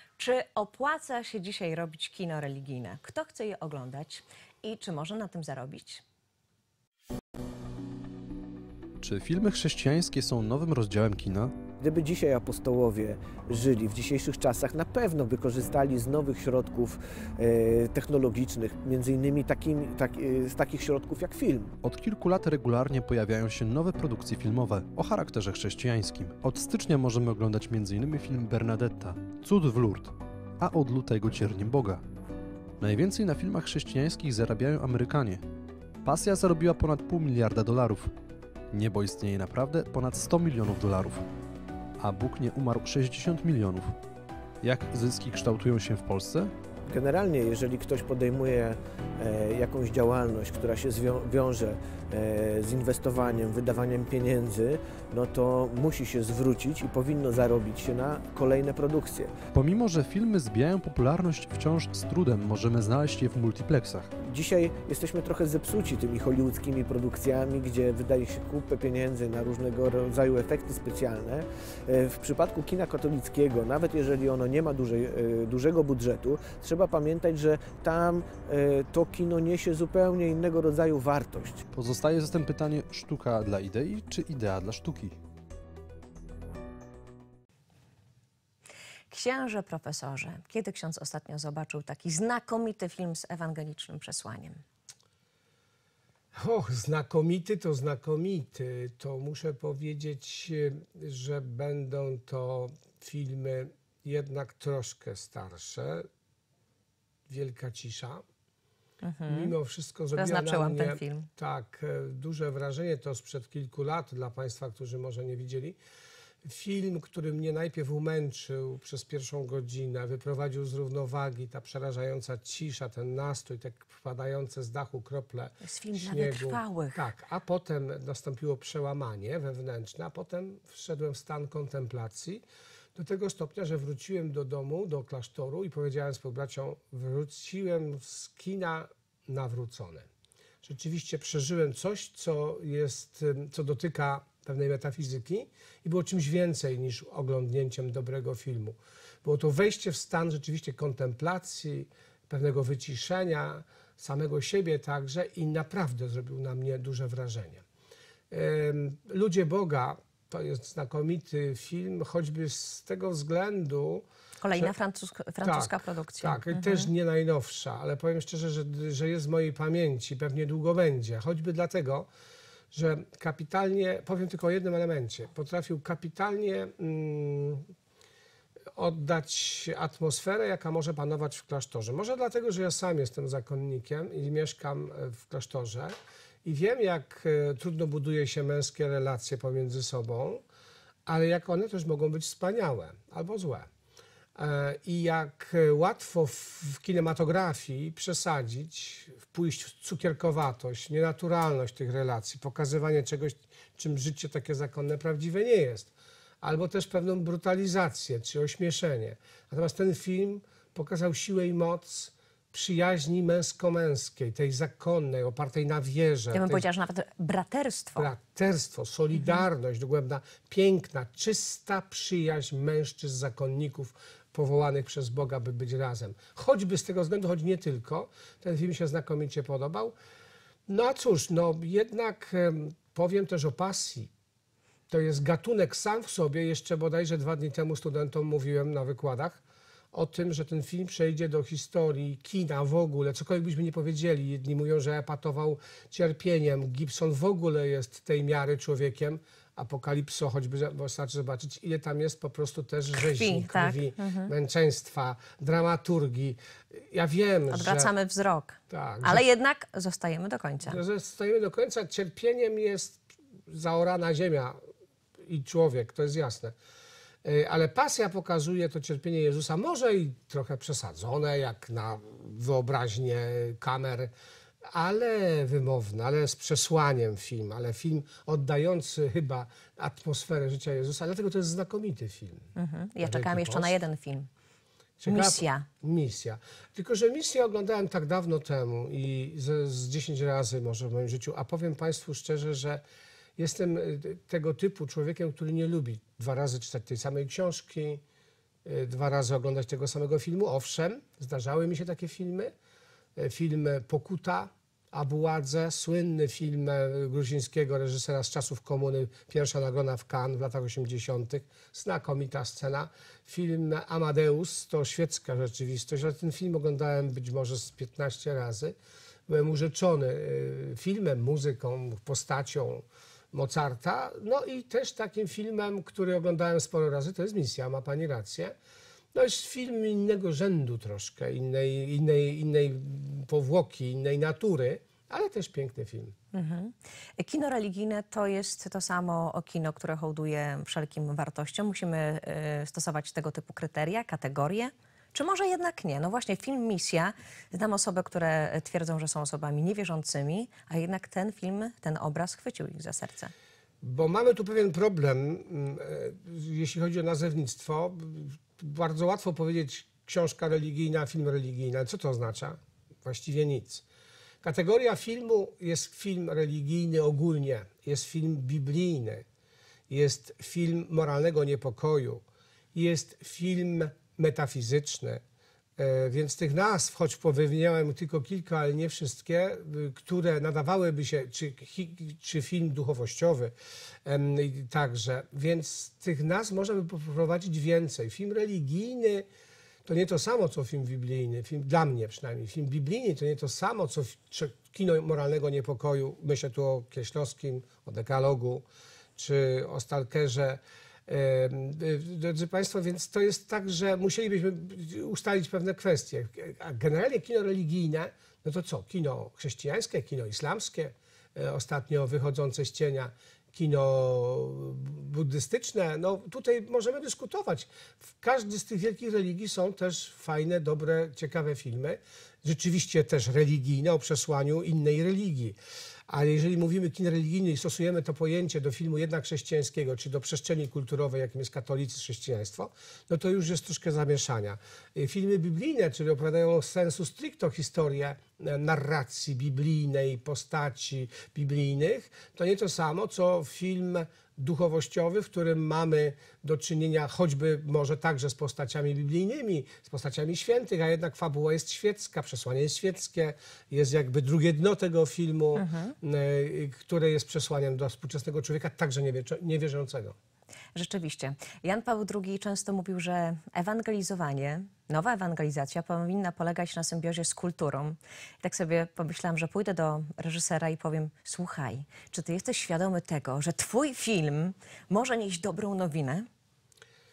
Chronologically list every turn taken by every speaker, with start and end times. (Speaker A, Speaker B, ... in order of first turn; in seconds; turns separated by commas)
Speaker A: 0.2-6.0, Speaker B: 9.0-11.5, Speaker C: 11.8-21.7, Speaker B: 21.8-32.0, Speaker B: 32.8-35.4, Speaker B: 36.0-38.1, Speaker B: 38.7-41.3, Speaker B: 42.0-44.0, Speaker B: 44.6-46.5, Speaker C: 46.9-59.3, Speaker B: 59.5-64.1, Speaker C: 64.2-81.6, Speaker B: 81.7-85.2, Speaker A: 89.1-94.6, Speaker D: 96.3-106.1, Speaker D: 107.3-108.2, Speaker A: 109.0-109.5, Speaker D: 109.2-115.8, Speaker A: 110.2-111.3, Speaker D: 116.4-132.4, Speaker A: 125.6-127.0, Speaker D: 132.9-140.1, Speaker D: 140.6-157.6, Speaker D: 158.3-164.7, Speaker A: 164.4-166.9, Speaker D: 165.4-172.1, Speaker D: 172.7-177.6, Speaker D: 178.8-190.4, Speaker D: 191.1-193.7, Speaker D: 194.3-216.7, Speaker A: 216.3-218.1, Speaker D: 218.0-229.9, Speaker A: 219.2-219.4, Speaker D: 230.7-234.1, Speaker D: 234.9-239.4, Speaker D: 239.9-257.9, Speaker A: 252.9-254.3, Speaker A: 257.5-260.8, Speaker D: 258.7-259.2, Speaker D: 260.6-264.6, Speaker D: 265.2-266.5, Speaker D: 267.2-274.1, Speaker D: 274.7-282.5, Speaker A: 282.5-284.3, Speaker D: 283.0-283.8, Speaker D: 285.0-292.8, Speaker A: 285.1-285.6, Speaker D: 293.4-298.0, Speaker D: 298.6-302.5, Speaker D: 303.1-318.8, Speaker D: 319.3-328.5, Speaker D: 329.1-336.1, Speaker A: 336.3-353.3, Speaker D: 353.8-363.8, Speaker D: 364.4-369.2, Speaker D: 369.9-372.2, Speaker D: 372.7-375.2, Speaker D: 375.8-383.5, Speaker D: 384.0-389.3, Speaker D: 389.8-398.6, Speaker D: 399.1-460.1, Speaker A: 455.6-455.9, Speaker A: 460.7-476.3